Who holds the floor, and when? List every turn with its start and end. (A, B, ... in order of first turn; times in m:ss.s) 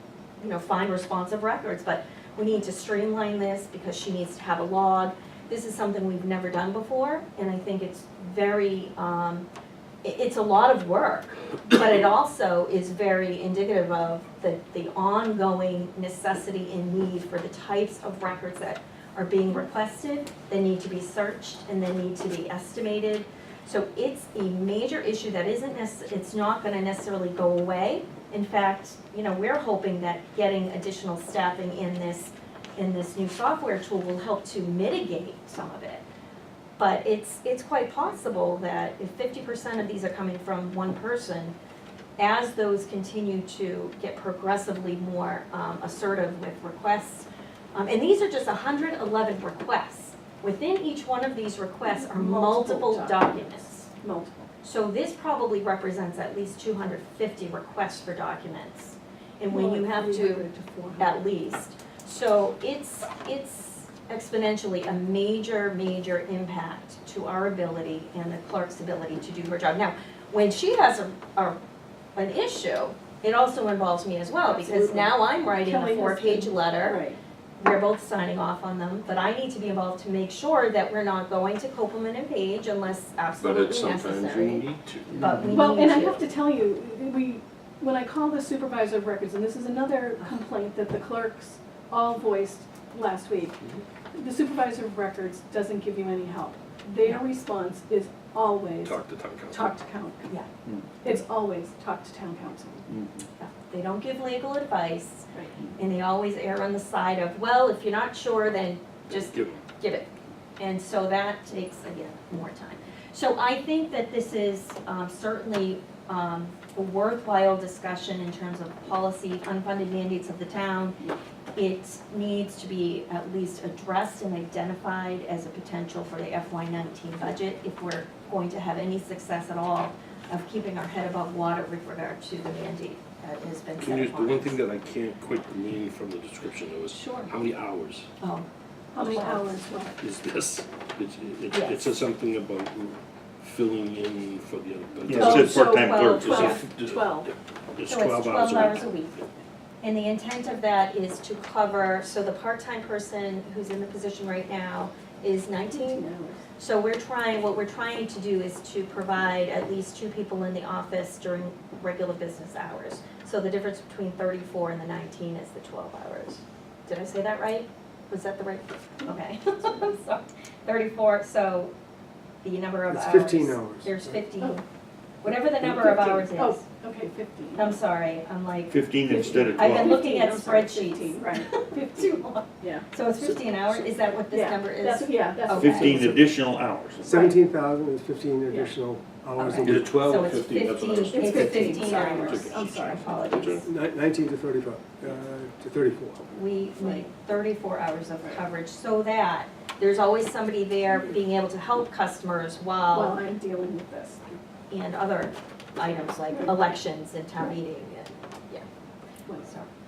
0:00.4-0:09.5 A
0:10.0-0:36.0 A
0:36.8-0:41.6 A
0:42.2-0:53.9 A
0:51.8-0:54.5 B
0:54.6-1:00.5 A
0:59.5-1:01.2 B
1:01.0-1:11.6 A
1:12.2-1:17.0 A
1:14.4-1:17.2 B
1:17.6-1:26.2 A
1:23.4-1:25.3 C
1:25.4-1:33.6 B
1:34.1-1:39.0 B
1:38.8-1:39.7 C
1:39.5-1:40.3 B
1:41.0-1:42.9 B
1:43.4-2:01.0 A
1:45.3-1:45.6 B
1:49.1-1:49.6 C
2:01.6-2:14.6 A
2:13.8-2:18.1 C
2:16.9-2:17.3 A
2:18.2-2:18.5 A
2:18.9-2:20.0 B
2:19.0-2:19.5 A
2:20.0-2:25.5 C
2:21.5-2:22.0 A
2:25.1-2:26.6 D
2:25.1-2:27.3 B
2:25.5-2:26.6 A
2:26.0-2:28.9 C
2:27.9-2:29.2 A
2:29.8-2:36.0 A
2:35.7-2:36.4 B
2:36.6-2:51.7 A
2:52.4-2:54.6 A
2:52.9-2:54.0 E
2:55.2-2:56.6 A
2:55.6-2:57.8 B
2:57.6-2:58.8 A
2:58.7-2:59.9 D
2:59.1-3:02.9 B
2:59.6-3:06.0 A
3:04.3-3:06.3 B
3:05.5-3:07.1 D
3:07.0-3:07.4 B
3:07.0-3:10.0 E
3:08.5-3:08.7 B
3:09.4-3:13.7 A
3:09.6-3:13.7 C
3:11.0-3:13.7 B
3:13.7-3:16.2 E
3:16.3-3:23.2 A
3:22.9-3:24.4 B
3:24.7-3:28.7 A
3:26.3-3:26.8 B
3:29.4-3:29.7 A